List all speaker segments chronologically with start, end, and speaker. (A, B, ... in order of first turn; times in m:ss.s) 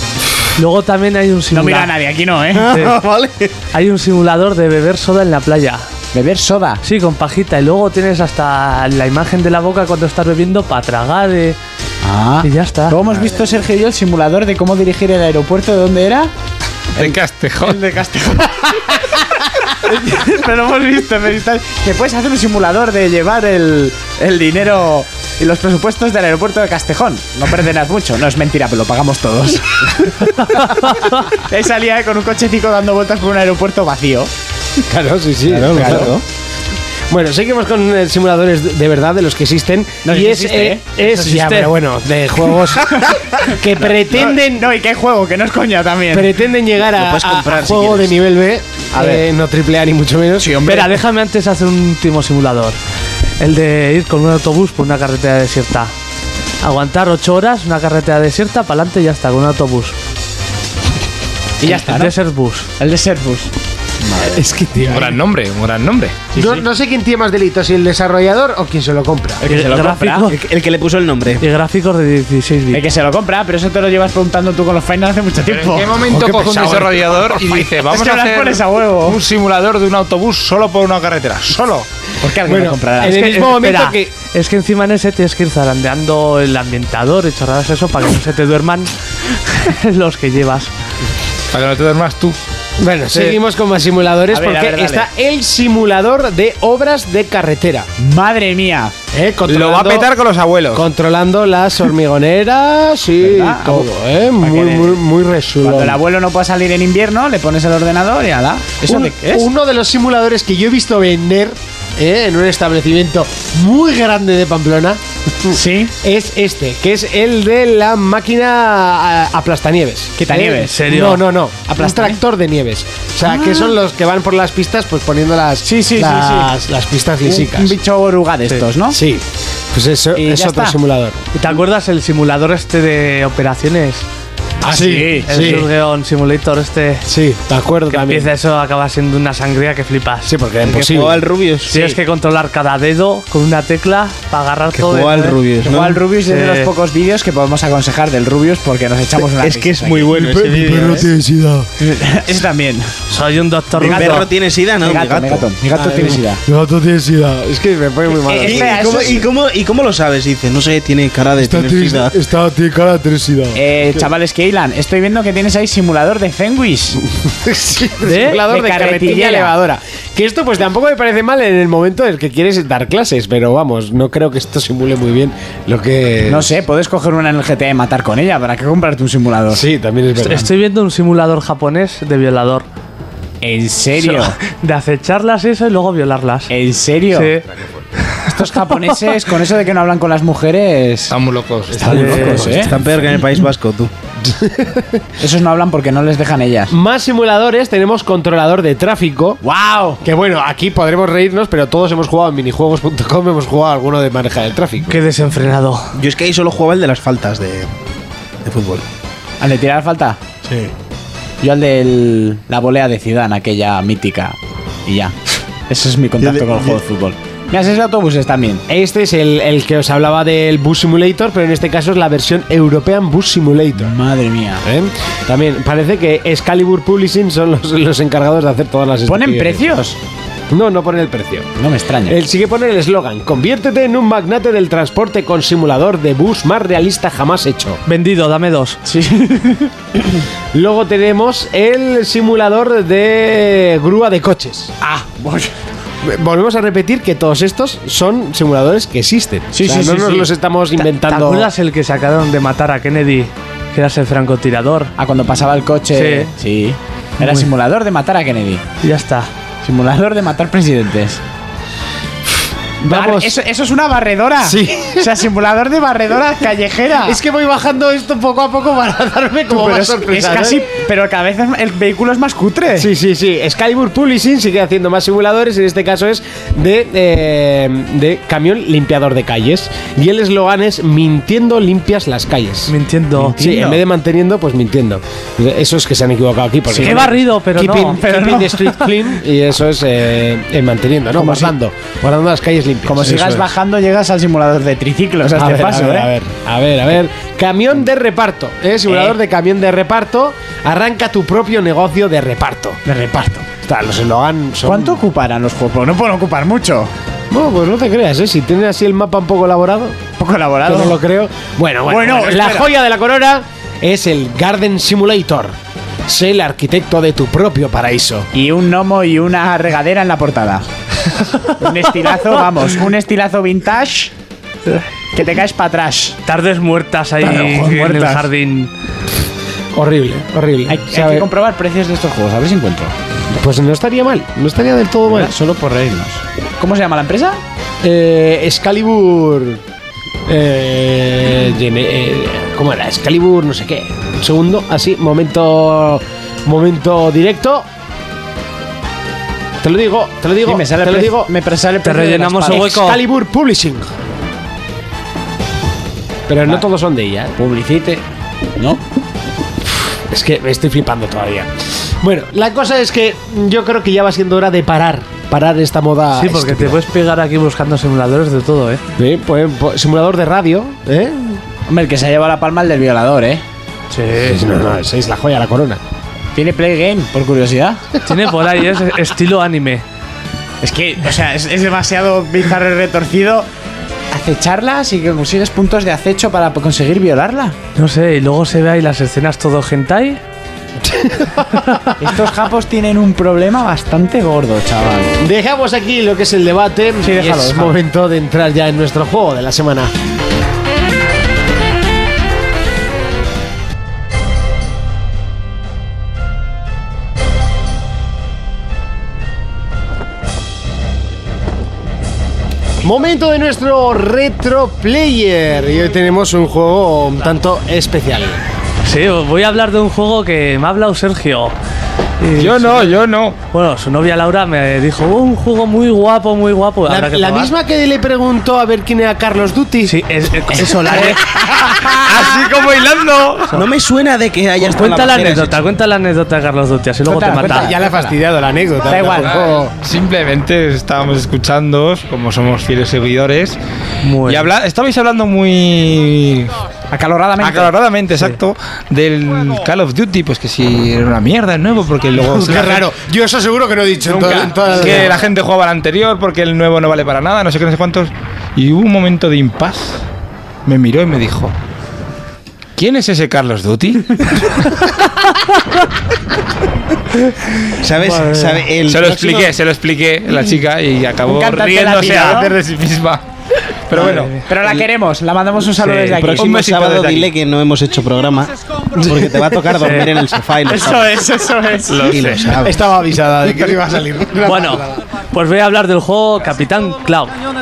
0:00.6-0:01.9 A
0:01.5-0:02.8 B
0:02.5-0:03.5 C
0:02.7-0:03.0 A
0:03.7-0:05.8 A
0:06.1-0:06.8 B
0:06.8-0:11.6 A
0:12.0-0:16.3 B
0:12.4-0:13.0 A
0:17.0-0:17.8 D
0:17.0-0:34.3 B
0:34.9-0:36.2 E
0:35.5-0:36.2 C
0:35.7-0:36.1 B
0:37.1-0:44.7 E
0:40.0-0:40.8 B
0:41.0-0:41.7 A
0:42.8-0:46.3 B
0:46.1-0:50.7 E
0:46.9-0:48.2 C
0:48.9-0:49.2 B
0:50.4-0:50.9 B
0:50.6-0:52.8 A
0:53.4-0:55.9 A
0:56.6-0:59.9 A
1:01.6-1:02.1 B
1:01.6-1:02.7 A
1:02.8-1:03.5 B
1:04.0-1:04.4 B
1:04.2-1:05.2 E
1:04.8-1:06.3 D
1:06.3-1:09.4 E
1:06.3-1:06.6 B
1:09.4-1:10.3 B
1:09.4-1:10.4 A
1:10.3-1:11.4 C
1:11.4-1:12.8 A
1:12.7-1:16.0 B
1:15.4-1:21.8 D
1:16.0-1:17.2 E
1:17.4-1:19.2 B
1:22.2-1:23.3 B
1:22.4-1:24.1 E
1:23.0-1:30.7 A
1:31.5-1:32.4 D
1:32.8-1:37.9 E
1:34.3-1:35.1 B
1:38.0-1:39.0 B
1:39.1-1:40.1 E
1:39.5-1:40.9 D
1:40.7-1:46.0 E
1:43.2-1:43.9 B
1:44.4-1:45.0 B
1:45.6-1:49.4 B
1:48.8-2:07.8 E
1:55.5-1:55.9 B
2:00.2-2:00.7 B
2:00.7-2:01.2 A
2:01.8-2:02.1 B
2:03.2-2:03.7 B
2:05.6-2:06.5 B
2:07.2-2:09.0 B
2:08.9-2:11.3 E
2:10.1-2:10.8 B
2:11.3-2:14.0 A
2:14.6-2:15.6 B
2:14.6-2:15.7 E
2:15.2-2:17.1 A
2:17.0-2:18.3 E
2:17.9-2:20.3 A
2:20.2-2:21.2 E
2:20.6-2:21.7 C
2:21.7-2:25.4 A
2:21.7-2:22.0 B
2:24.7-2:26.0 C
2:25.6-2:30.1 B
2:26.2-2:26.7 A
2:29.4-2:31.1 C
2:30.1-2:31.7 E
2:31.8-2:33.0 B
2:33.1-2:34.3 A
2:33.8-2:35.5 C
2:33.8-2:34.2 B
2:34.8-2:36.4 B
2:35.7-2:39.2 E
2:38.2-2:39.2 B
2:38.4-2:42.2 C
2:41.4-2:44.0 E
2:43.5-2:47.0 B
2:47.2-2:56.5 E
2:48.0-2:48.4 A
2:48.5-2:49.8 B
2:56.3-2:59.6 B
2:59.5-3:00.5 E
3:00.2-3:02.6 A
3:03.4-3:04.4 B
3:04.0-3:06.5 A
3:06.5-3:07.3 B
3:07.1-3:07.4 A
3:08.0-3:09.1 A
3:08.2-3:11.2 B
3:11.1-3:12.2 D
3:11.7-3:12.7 E
3:11.8-3:12.7 B
3:11.9-3:12.5 A
3:12.4-3:13.9 C
3:14.3-3:15.0 E
3:15.2-3:16.7 B
3:16.7-3:19.4 E
3:19.4-3:20.0 B
3:20.0-3:25.0 E
3:24.9-3:26.0 A
3:25.9-3:27.7 C
3:28.4-3:28.8 C
3:29.4-3:30.2 B
3:31.4-3:35.1 B
3:35.7-3:38.6 B
3:38.7-3:43.9 E
3:43.8-3:44.6 B
3:44.6-3:49.7 E
3:49.0-3:50.0 B
3:50.5-3:51.5 E
3:51.6-3:52.2 B
3:52.1-3:57.8 E
3:57.8-3:58.8 A
3:58.8-4:00.2 B
4:00.5-4:04.7 E
4:04.8-4:05.5 B
4:06.0-4:11.5 E
4:09.5-4:10.3 B
4:10.9-4:14.9 A
4:15.0-4:18.6 B
4:15.9-4:16.3 A
4:17.2-4:17.5 A
4:18.8-4:19.3 A
4:19.6-4:21.2 B
4:22.8-4:27.2 B
4:22.8-4:23.4 E
4:24.4-4:25.1 E
4:27.0-4:30.6 E
4:29.5-4:32.9 B
4:32.7-4:42.7 E
4:42.7-4:43.4 A
4:43.2-4:43.8 B
4:43.4-4:53.5 E
4:46.7-4:47.1 B
4:46.8-4:48.0 A
4:48.0-4:48.5 B
4:51.1-4:51.5 B
4:52.8-4:56.1 B
4:55.3-5:02.8 E
4:58.9-4:59.1 B
5:02.8-5:03.5 B
5:03.5-5:05.0 E
5:04.6-5:06.9 B
5:07.3-5:10.0 E
5:10.2-5:11.0 B
5:10.6-5:15.5 E
5:11.8-5:12.7 B
5:16.1-5:18.3 E
5:18.3-5:20.7 B
5:21.6-5:24.1 B
5:25.1-5:26.2 B
5:26.2-5:28.7 A
5:27.2-5:28.3 B
5:29.7-5:31.3 E
5:30.7-5:32.9 B
5:33.3-5:35.3 E
5:35.0-5:37.4 B
5:37.8-5:39.6 E
5:40.3-5:47.7 E
5:49.6-5:51.3 E
5:50.4-5:52.7 B
5:51.8-5:53.0 A
5:52.5-5:53.9 E
5:56.3-5:57.3 E
5:57.4-5:58.0 B
6:00.1-6:01.5 E
6:02.0-6:06.8 E
6:06.1-6:08.8 A
6:09.0-6:11.4 E
6:11.7-6:13.4 B
6:13.9-6:14.4 A
6:14.2-6:15.8 E
6:16.4-6:17.8 B
6:18.0-6:19.8 A
6:20.6-6:23.5 B
6:24.1-6:27.6 B
6:27.8-6:30.2 A
6:30.8-6:31.4 E
6:32.0-6:35.2 B
6:35.2-6:39.9 E
6:37.0-6:37.8 B
6:52.8-6:58.4 E
6:58.8-7:01.5 A
7:02.2-7:03.0 A
7:02.4-7:03.4 D
7:03.5-7:07.5 A
7:06.9-7:10.0 E
7:09.8-7:11.3 A
7:10.5-7:12.0 B
7:11.8-7:13.6 D
7:13.5-7:15.7 C
7:14.6-7:17.7 A
7:17.1-7:18.2 B
7:17.2-7:19.7 E
7:18.9-7:19.3 B
7:19.0-7:23.6 D
7:24.0-7:24.5 A
7:24.2-7:26.5 D
7:26.9-7:27.7 B
7:27.4-7:32.9 D
7:32.1-7:35.2 E
7:34.1-7:40.0 D
7:34.2-7:34.9 B
7:40.6-7:41.5 D
7:42.8-7:44.8 D
7:47.8-7:49.5 C
7:48.0-7:48.7 A
7:48.9-7:53.2 D
7:51.2-7:52.5 B
7:53.9-7:54.4 D
7:54.0-7:54.4 A
7:54.0-7:56.6 B
7:55.8-7:56.2 A
7:56.2-8:01.2 C
7:56.4-7:57.3 D
7:59.0-7:59.2 E
7:59.8-8:00.1 A
8:00.6-8:02.0 B
8:01.9-8:02.6 D
8:02.0-8:02.8 C
8:02.6-8:05.0 E
8:04.4-8:07.3 A